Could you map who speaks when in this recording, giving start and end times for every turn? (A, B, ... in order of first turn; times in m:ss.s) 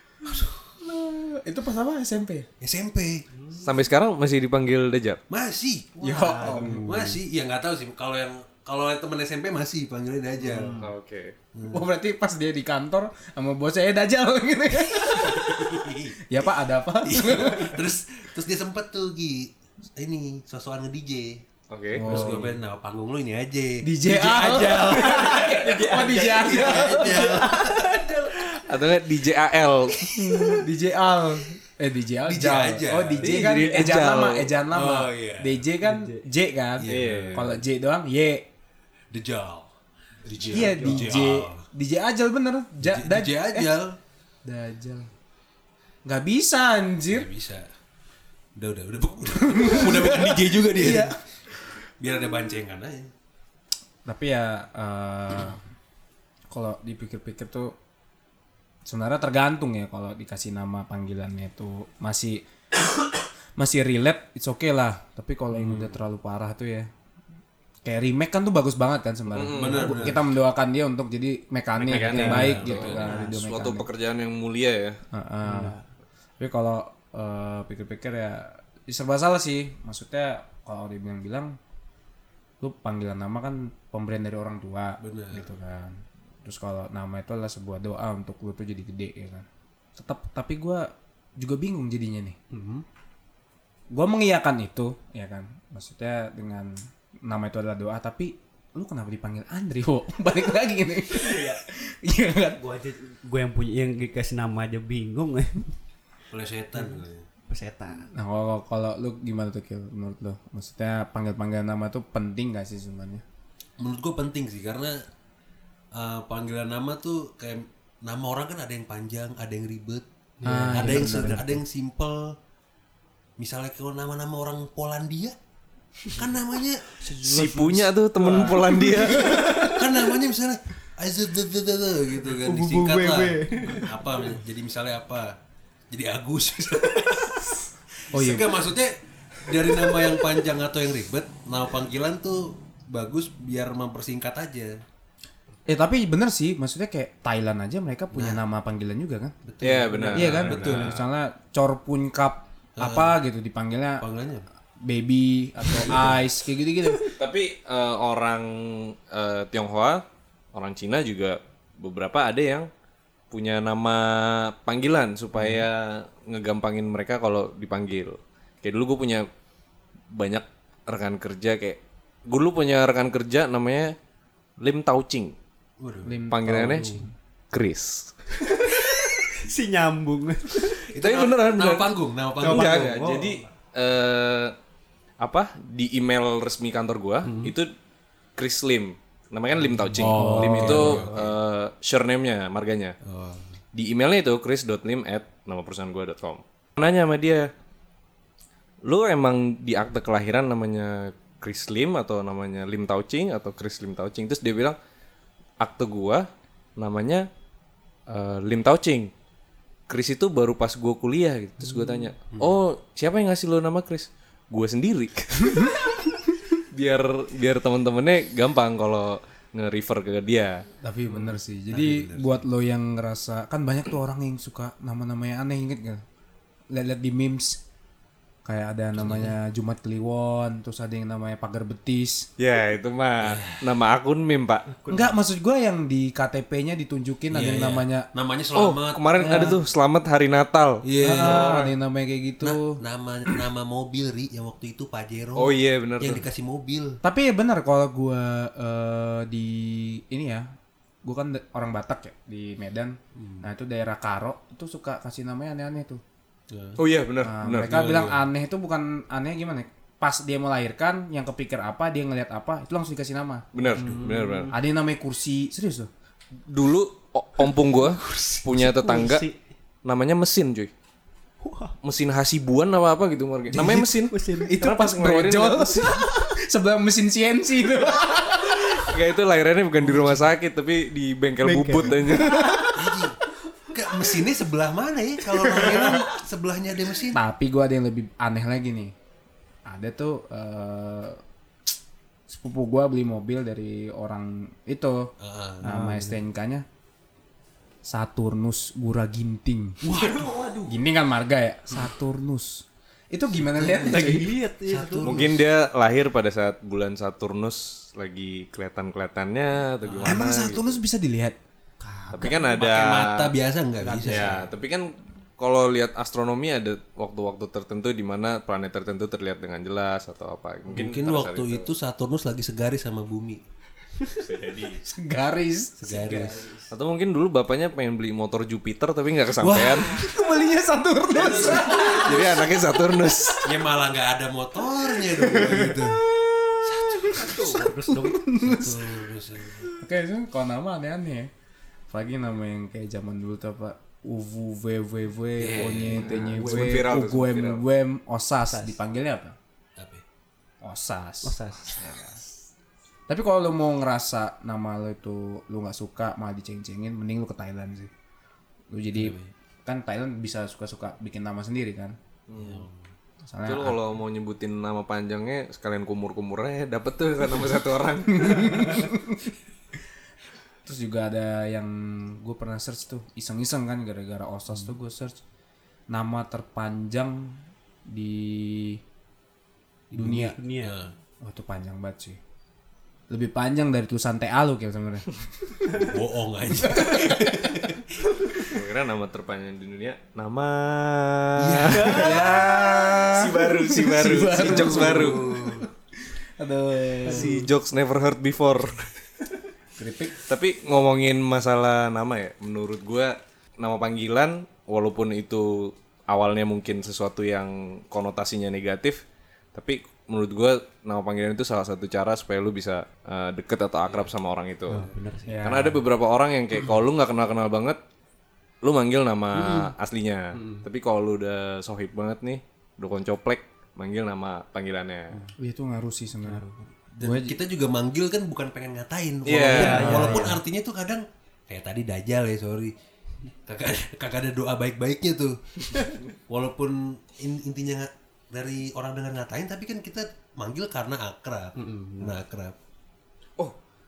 0:00.2-0:00.6 A
0:00.8-0:02.5 B
0:02.6-0:03.3 A
0:03.4-0:03.7 C
0:03.6-0:05.2 D
0:05.3-0:10.8 A
0:06.0-0:07.2 B
0:06.1-0:07.1 C
0:10.4-0:10.9 C
0:10.8-0:11.4 D
0:11.5-0:11.9 A
0:11.7-0:17.8 B
0:15.2-0:16.2 A
0:17.0-0:21.4 A
0:21.7-0:22.3 D
0:21.9-0:22.6 B
0:22.0-0:25.4 A
0:23.8-0:27.5 B
0:24.5-0:28.4 C
0:26.2-0:27.9 A
0:28.3-0:30.6 D
0:30.1-0:38.5 B
0:32.3-0:33.5 A
0:33.2-0:34.5 D
0:34.7-0:35.6 A
0:35.8-0:36.2 C
0:36.8-0:37.6 A
0:36.9-0:37.6 D
0:39.1-0:39.7 A
0:40.3-0:41.6 A
0:40.4-0:41.1 C
0:40.5-0:43.7 B
0:42.8-0:44.0 A
0:44.4-0:45.1 B
0:46.0-0:47.3 B
0:47.1-0:47.7 A
0:48.6-0:51.2 A
0:49.5-0:51.2 B
0:52.0-0:53.1 A
0:54.0-0:55.6 B
0:56.5-0:57.8 B
0:58.8-1:02.4 B
1:03.6-1:06.9 B
1:05.5-1:06.0 A
1:07.8-1:13.9 B
1:09.3-1:10.1 D
1:09.5-1:10.3 A
1:11.8-1:15.0 D
1:12.1-1:12.6 C
1:12.2-1:13.3 A
1:15.1-1:15.8 B
1:15.4-1:15.8 C
1:16.4-1:21.6 B
1:22.6-1:32.4 B
1:25.0-1:25.5 A
1:32.5-1:32.8 A
1:33.9-1:42.6 B
1:41.1-1:41.6 C
1:42.6-1:45.7 C
1:46.3-1:47.2 A
1:46.8-1:48.1 C
1:48.1-1:53.2 B
1:53.8-1:55.0 A
1:55.9-2:00.0 A
2:00.4-2:01.6 C
2:00.4-2:01.6 B
2:00.7-2:02.4 A
2:03.4-2:05.4 A
2:06.1-2:06.9 A
2:07.0-2:09.8 C
2:07.2-2:09.4 D
2:09.4-2:15.4 A
2:12.3-2:14.4 C
2:15.9-2:17.5 A
2:18.1-2:24.8 A
2:18.1-2:18.6 B
2:25.7-2:29.4 B
2:28.1-2:28.4 A
2:29.4-2:31.0 A
2:29.6-2:31.0 D
2:30.1-2:34.0 B
2:32.8-2:33.2 A
2:34.0-2:34.5 A
2:34.8-2:37.1 B
2:35.7-2:36.2 A
2:37.1-2:42.7 D
2:43.3-2:49.3 D
2:50.1-2:54.0 D
2:54.6-2:55.4 D
2:55.8-2:56.2 A
2:56.0-2:57.1 B
2:56.3-2:58.2 D
2:58.7-3:00.8 C
3:00.9-3:03.3 A
3:01.0-3:04.6 D
3:02.4-3:03.4 C
3:05.2-3:07.7 D
3:07.2-3:07.5 A
3:08.4-3:13.0 D
3:10.0-3:11.0 B
3:10.0-3:11.0 C
3:10.4-3:11.3 A
3:13.0-3:13.5 A
3:13.7-3:17.5 D
3:18.8-3:24.8 D
3:25.6-3:27.3 D
3:28.1-3:29.1 D
3:29.9-3:40.7 D
3:32.3-3:32.6 A
3:40.8-3:46.0 B
3:41.1-3:42.4 A
3:46.7-3:47.6 B
3:48.4-3:52.3 B
3:49.0-3:49.4 A
3:52.4-3:54.7 D
3:53.2-3:53.6 A
3:54.8-3:55.1 C
3:54.9-3:58.1 B
3:57.3-3:59.4 A
3:58.6-4:01.4 D
3:59.2-3:59.6 B
4:00.8-4:01.7 A
4:01.0-4:03.4 B
4:02.4-4:07.0 A
4:05.4-4:06.2 D
4:07.0-4:16.0 B
4:13.2-4:13.5 A
4:16.5-4:16.8 A
4:16.8-4:17.8 D
4:17.2-4:23.5 B
4:17.6-4:18.3 A
4:23.5-4:24.5 D
4:23.7-4:24.6 C
4:24.5-4:25.9 B
4:26.5-4:29.3 D
4:28.1-4:29.4 C
4:29.8-4:30.7 D
4:31.4-4:31.8 C
4:31.8-4:36.0 D
4:33.5-4:39.0 B
4:33.9-4:34.6 C
4:38.7-4:42.6 D
4:39.8-4:40.2 A
4:41.4-4:42.9 C
4:42.7-4:43.2 A
4:43.7-4:47.2 A
4:47.1-4:48.9 B
4:49.7-4:51.2 B
4:52.3-4:55.1 B
4:55.2-4:55.7 A
4:55.6-4:56.2 C
4:55.6-4:56.6 B
4:57.9-4:59.8 B
4:59.8-5:00.5 A
4:59.9-5:00.7 C
5:00.7-5:04.3 B
5:03.4-5:05.4 A
5:03.7-5:05.2 C
5:05.0-5:10.8 D
5:09.8-5:10.3 A
5:10.0-5:11.4 B
5:11.8-5:12.5 C
5:12.1-5:13.3 D
5:12.4-5:14.4 A
5:13.8-5:14.5 C
5:14.1-5:21.7 D
5:20.7-5:23.4 A
5:24.1-5:24.8 D
5:24.8-5:25.7 B
5:25.8-5:26.5 A
5:25.8-5:26.7 C
5:26.7-5:30.0 D
5:29.4-5:29.9 A
5:29.8-5:32.4 B
5:31.1-5:32.0 A
5:31.7-5:33.5 D
5:33.4-5:36.0 A
5:35.3-5:35.6 B
5:36.4-5:39.0 B
5:36.6-5:39.8 A
5:37.1-5:38.4 C
5:39.7-5:41.3 B
5:41.9-5:49.4 B
5:45.4-5:46.6 A
5:45.5-5:47.6 D
5:48.5-5:48.8 C
5:49.8-5:50.0 A
5:50.6-5:51.4 B
5:51.2-5:51.8 C
5:51.8-5:52.1 D
5:53.1-5:57.9 B
5:58.7-6:02.0 B
5:59.0-5:59.3 A
6:02.3-6:02.7 D
6:02.4-6:02.8 A
6:03.2-6:03.8 B
6:03.4-6:08.8 D
6:08.2-6:09.3 B
6:10.6-6:15.2 B
6:15.9-6:18.8 B
6:19.9-6:20.4 B
6:20.0-6:20.8 C
6:20.0-6:20.9 A
6:21.2-6:22.2 B
6:23.1-6:25.9 B
6:25.7-6:27.9 A
6:26.6-6:27.5 B
6:28.5-6:35.3 D
6:31.4-6:32.5 A
6:31.7-6:35.7 B
6:34.2-6:35.7 A
6:36.4-6:37.4 B
6:37.0-6:37.3 C
6:37.1-6:38.9 D
6:39.8-6:40.1 B
6:40.3-6:49.0 D
6:49.5-6:54.9 D
6:54.7-6:55.4 C
6:55.3-6:55.8 B
6:55.4-6:57.8 D
6:58.6-7:05.2 D
6:59.4-6:59.7 C
7:05.4-7:06.4 B
7:06.3-7:06.7 C
7:07.0-7:12.7 A
7:07.0-7:07.4 B
7:09.2-7:10.0 D
7:09.5-7:10.4 C
7:09.6-7:10.4 B
7:13.5-7:22.6 A
7:21.6-7:22.2 C